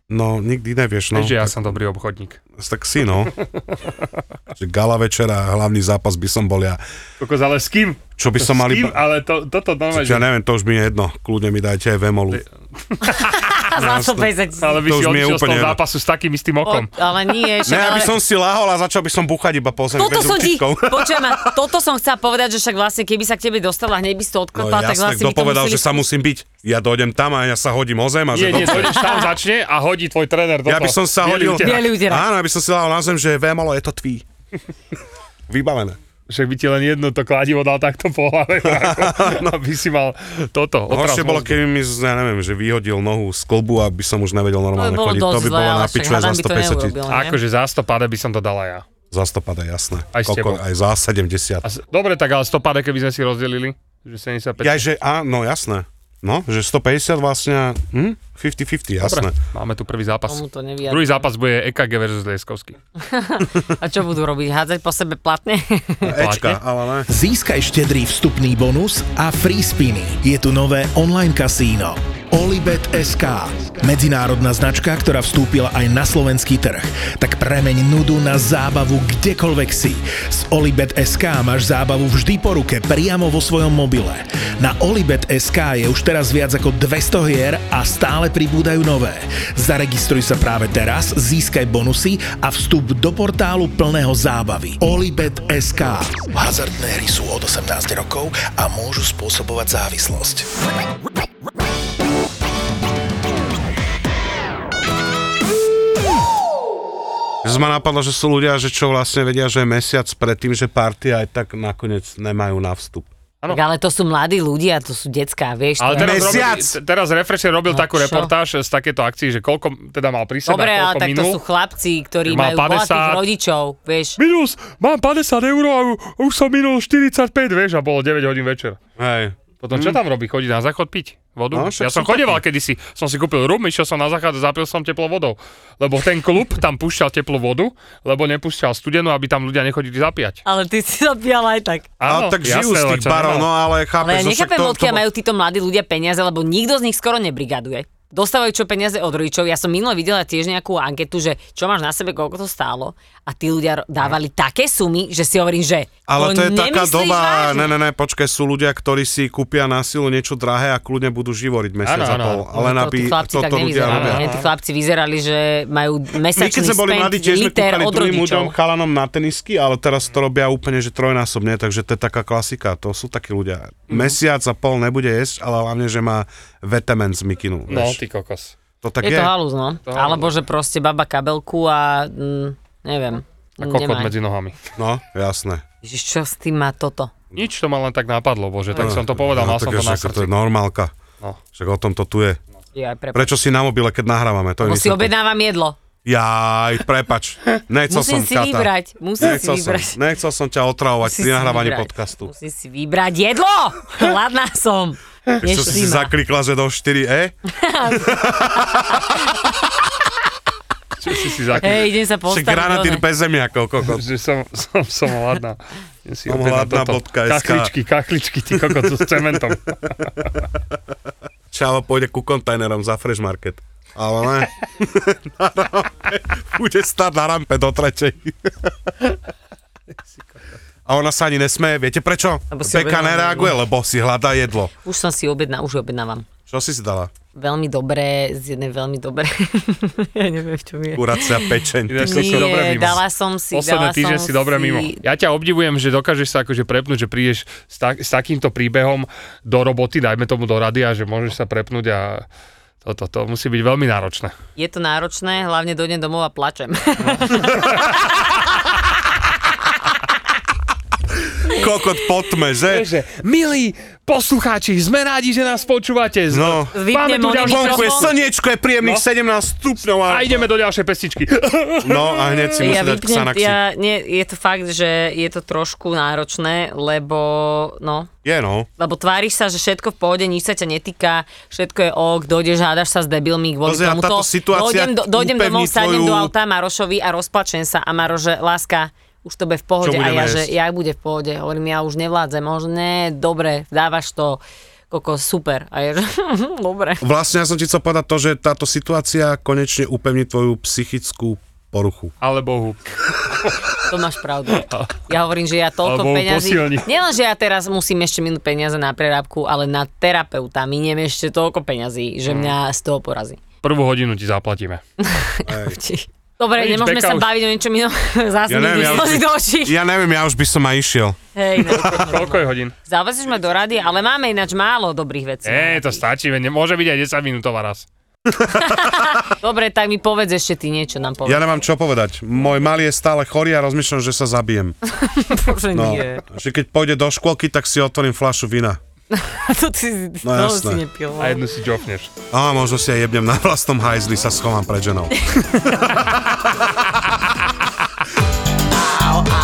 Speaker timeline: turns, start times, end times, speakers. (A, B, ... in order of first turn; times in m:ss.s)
0:00.1-0:01.7 A
0:01.1-0:02.4 B
0:02.6-0:03.3 A
0:03.4-0:04.0 B
0:04.5-0:06.8 A
0:07.2-0:10.3 B
0:08.2-0:09.0 A
0:09.9-0:12.4 A
0:12.3-0:13.2 B
0:13.0-0:14.8 C
0:13.8-0:14.3 A
0:14.6-0:16.9 B
0:14.8-0:15.8 A
0:16.6-0:18.2 C
0:17.6-0:21.6 A
0:19.9-0:26.0 C
0:24.5-0:29.0 A
0:28.3-0:31.9 B
0:28.5-0:29.3 C
0:30.6-0:34.2 A
0:31.6-0:32.3 C
0:35.5-0:36.0 A
0:36.3-0:41.6 B
0:38.6-0:39.5 A
0:40.9-0:47.0 A
0:44.7-0:47.4 C
0:47.1-0:48.8 B
0:49.1-0:51.6 A
0:50.1-0:50.6 B
0:51.6-0:54.8 B
0:54.6-0:59.3 A
0:59.0-1:02.8 B
1:00.3-1:01.2 C
1:03.0-1:06.1 C
1:06.0-1:07.1 A
1:06.1-1:06.6 B
1:07.1-1:40.4 D
1:47.4-1:53.1 A
1:53.5-1:56.5 C
1:55.8-2:01.4 B
1:56.0-1:56.8 A
1:57.7-1:58.3 C
2:00.4-2:04.2 C
2:02.2-2:03.3 B
2:04.2-2:08.8 B
2:09.0-2:10.0 A
2:09.6-2:20.4 B
2:11.5-2:12.4 A
2:20.4-2:21.9 C
2:22.0-2:23.5 B
2:22.0-2:25.0 A
2:24.0-2:37.7 C
2:36.1-2:44.3 A
2:41.8-2:42.4 B
2:42.5-2:48.5 C
2:43.8-2:44.4 B
2:46.3-2:58.0 A
2:53.9-2:54.2 B
2:57.7-2:58.5 B
2:58.8-2:59.3 A
2:59.0-3:04.1 C
2:59.8-3:00.3 B
3:03.6-3:04.6 B
3:04.8-3:05.6 A
3:05.8-3:07.1 C
3:07.4-3:10.3 B
3:08.8-3:10.9 A
3:11.5-3:12.4 A
3:12.7-3:13.4 C
3:13.1-3:15.1 A
3:14.6-3:15.8 C
3:16.0-3:22.3 A
3:17.9-3:20.0 C
3:21.0-3:26.1 C
3:25.4-3:27.4 A
3:27.5-3:29.5 C
3:27.9-3:29.0 A
3:31.0-3:31.9 B
3:31.6-3:33.0 C
3:32.2-3:34.0 A
3:33.8-3:40.4 B
3:36.3-3:37.7 A
3:41.5-3:48.7 A
3:50.8-3:54.7 A
3:52.5-3:53.6 C
3:54.8-3:56.3 C
3:56.5-3:57.1 A
3:57.3-4:01.5 C
4:00.9-4:02.8 A
4:01.9-4:12.2 B
4:02.0-4:05.0 C
4:12.8-4:14.3 B
4:14.6-4:18.4 C
4:17.0-4:18.0 B
4:21.4-4:22.9 A
4:22.7-4:28.2 B
4:26.3-4:26.7 A
4:26.7-4:28.1 C
4:27.3-4:30.5 A
4:28.8-4:29.0 B
4:30.1-4:32.8 B
4:31.8-4:33.6 A
4:32.6-4:38.1 C
4:38.2-4:38.7 A
4:38.8-4:57.0 C
4:43.6-4:46.3 A
4:49.8-4:50.5 A
4:57.0-5:02.1 A
5:02.2-5:03.8 B
5:03.8-5:13.4 C
5:04.5-5:05.0 B
5:05.8-5:06.9 B
5:12.3-5:12.6 B
5:13.6-5:14.8 B
5:15.0-5:19.8 C
5:15.4-5:15.8 A
5:16.5-5:17.3 B
5:18.5-5:21.2 A
5:18.7-5:19.2 B
5:21.3-5:26.0 C
5:21.6-5:22.7 B
5:25.4-5:27.9 B
5:28.6-5:31.4 C
5:31.2-5:34.8 A
5:34.9-5:36.2 C
5:35.7-5:38.8 A
5:39.1-5:41.4 C
5:40.2-5:40.8 A
5:41.2-5:42.1 B
5:42.3-5:45.1 A